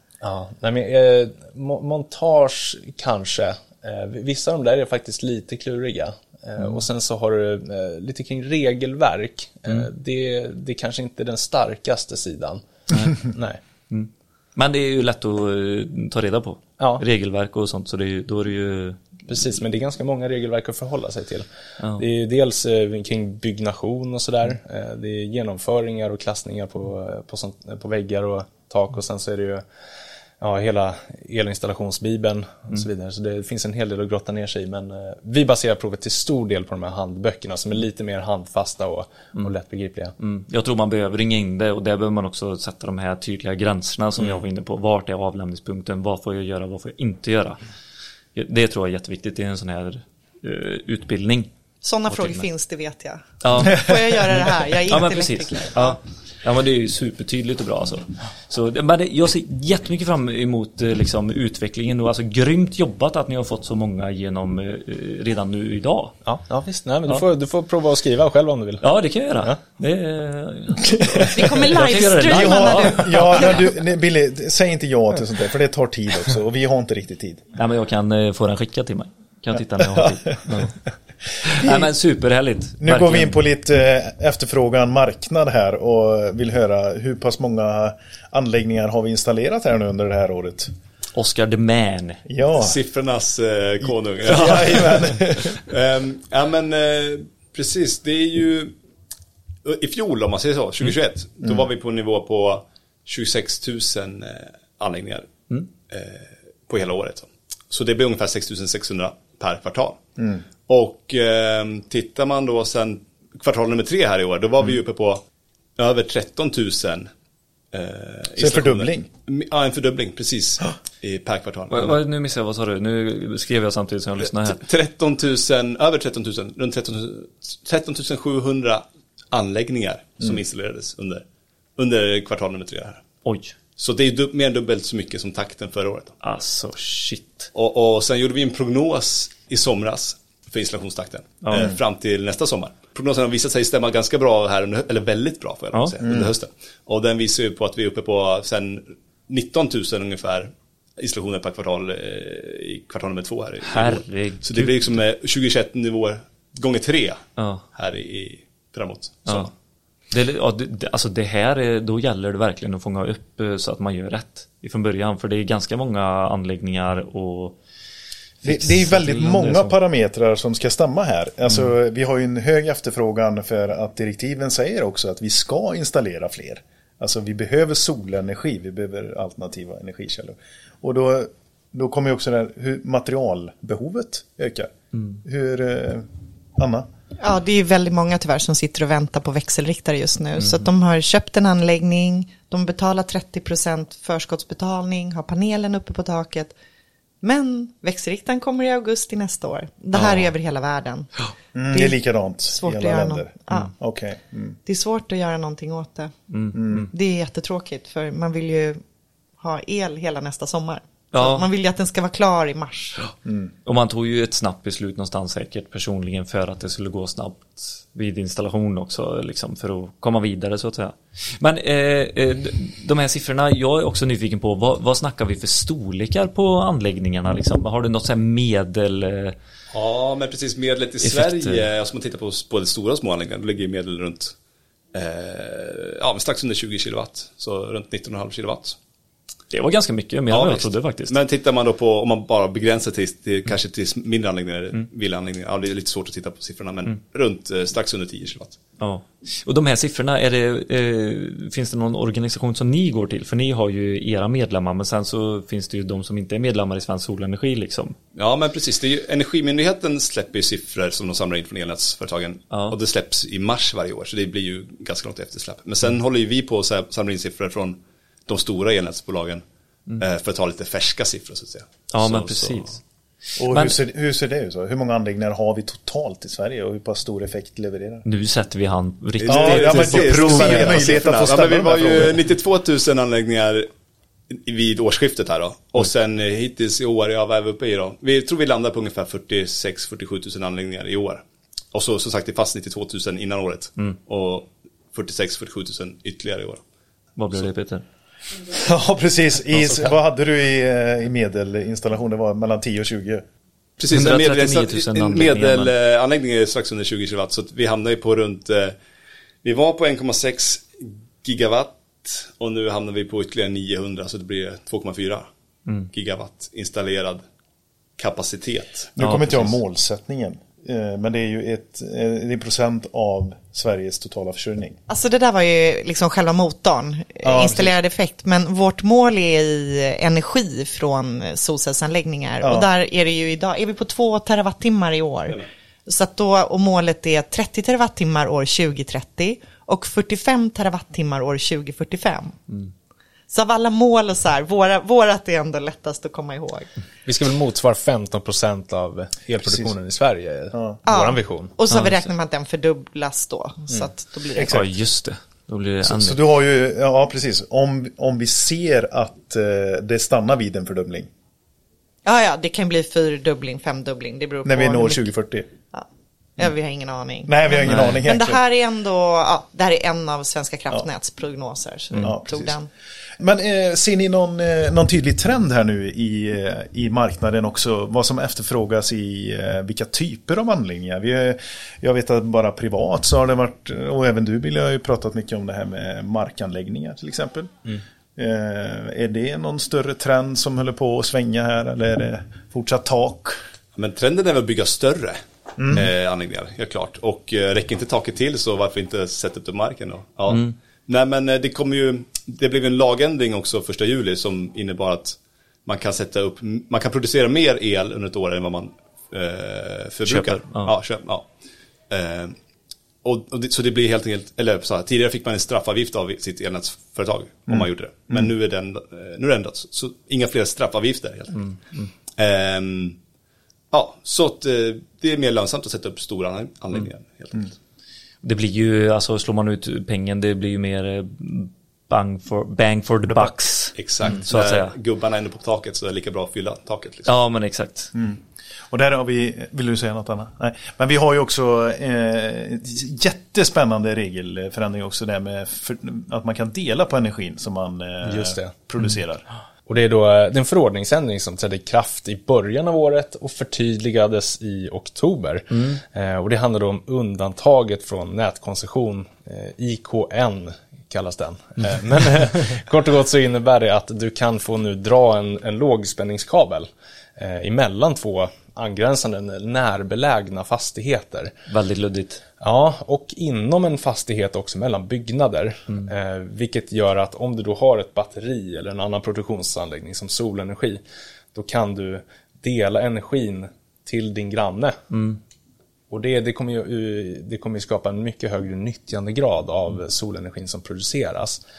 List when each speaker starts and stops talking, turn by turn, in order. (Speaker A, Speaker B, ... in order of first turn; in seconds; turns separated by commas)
Speaker A: 0.2-13.6, Speaker B: 12.9-13.2, Speaker B: 13.9-19.1, Speaker A: 16.8-17.0, Speaker A: 19.3-29.6, Speaker A: 30.4-40.1, Speaker B: 40.2-47.6, Speaker B: 48.3-51.5, Speaker C: 51.8-56.0, Speaker B: 52.1-52.5, Speaker B: 53.4-66.2, Speaker A: 66.2-68.8, Speaker B: 68.8-73.6, Speaker D: 70.9-71.3, Speaker C: 71.3-73.7, Speaker D: 72.2-77.5, Speaker B: 77.5-80.7, Speaker D: 79.9-80.7, Speaker D: 81.4-81.9, Speaker B: 81.4-83.4, Speaker D: 82.8-90.7, Speaker B: 91.1-92.2, Speaker D: 92.3-92.8, Speaker E: 92.5-95.0, Speaker D: 94.2-95.6, Speaker B: 94.3-95.5, Speaker E: 95.5-98.7, Speaker E: 99.6-105.3, Speaker E: 105.9-110.0, Speaker D: 110.2-110.4, Speaker E: 110.7-115.2, Speaker E: 115.8-117.1, Speaker E: 117.7-122.0, Speaker D: 118.4-119.1, Speaker B: 121.7-124.6, Speaker E: 124.5-131.2, Speaker E: 131.8-133.1, Speaker B: 133.2-133.6, Speaker E: 133.8-136.2, Speaker B: 136.2-137.5, Speaker E: 137.5-159.5, Speaker B: 141.4-141.7, Speaker D: 146.0-146.3, Speaker B: 153.6-154.8, Speaker B: 157.4-157.6, Speaker B: 159.2-159.5, Speaker B: 160.1-167.6, Speaker B: 168.4-169.7, Speaker D: 168.4-184.7, Speaker B: 184.9-185.2, Speaker D: 185.2-186.9, Speaker C: 187.2-196.5, Speaker B: 190.4-190.7, Speaker C: 197.2-201.1, Speaker D: 201.5-204.6, Speaker C: 201.7-202.0, Speaker C: 202.5-203.7, Speaker C: 204.7-206.1, Speaker B: 206.3-206.9, Speaker D: 206.5-206.9, Speaker C: 206.9-208.8, Speaker C: 209.4-213.0, Speaker B: 211.1-211.5, Speaker D: 213.2-213.5, Speaker B: 213.6-229.3, Speaker E: 229.7-234.3, Speaker B: 231.0-231.7, Speaker E: 234.9-238.8, Speaker B: 239.5-241.2, Speaker E: 240.3-248.6, Speaker B: 248.8-258.0, Speaker E: 258.1-269.4, Speaker B: 262.5-262.8, Speaker E: 270.0-272.6, Speaker B: 271.9-272.8, Speaker D: 273.4-278.0, Speaker B: 273.5-273.8, Speaker B: 278.0-281.0, Speaker E: 279.2-283.7, Speaker D: 279.3-282.2, Speaker E: 284.3-296.6, Speaker B: 297.1-297.8, Speaker D: 298.5-303.2, Speaker E: 303.8-308.8, Speaker B: 303.9-305.7, Speaker E: 309.4-315.3, Speaker E: 315.9-317.2, Speaker E: 318.0-318.9, Speaker D: 318.9-324.8, Speaker B: 319.0-319.6, Speaker C: 324.9-342.4, Speaker D: 327.2-327.7, Speaker D: 332.4-332.7, Speaker C: 343.3-346.7, Speaker A: 347.1-351.5, Speaker D: 350.5-350.8, Speaker C: 350.9-354.6, Speaker B: 351.7-352.0, Speaker D: 354.4-354.7, Speaker B: 354.4-356.2, Speaker D: 355.8-361.1, Speaker C: 362.0-365.1, Speaker D: 364.4-365.5, Speaker C: 366.4-372.7, Speaker D: 367.3-368.4, Speaker B: 367.6-368.1, Speaker D: 372.0-372.5, Speaker D: 373.2-393.4, Speaker E: 393.8-395.2, Speaker D: 395.6-395.9, Speaker E: 395.7-411.3, Speaker B: 400.3-400.6, Speaker B: 410.0-410.7, Speaker E: 411.9-412.4, Speaker E: 413.0-421.5, Speaker D: 417.5-418.3, Speaker B: 421.4-421.9, Speaker E: 422.1-423.0, Speaker E: 423.7-427.5, Speaker B: 428.2-434.7, Speaker E: 433.8-437.1, Speaker B: 437.1-437.9, Speaker D: 437.9-449.2, Speaker A: 448.0-448.5, Speaker A: 449.7-471.3, Speaker B: 455.5-455.8, Speaker B: 471.5-472.2, Speaker A: 472.4-480.8, Speaker A: 481.3-484.9, Speaker B: 484.9-485.2, Speaker A: 485.9-491.4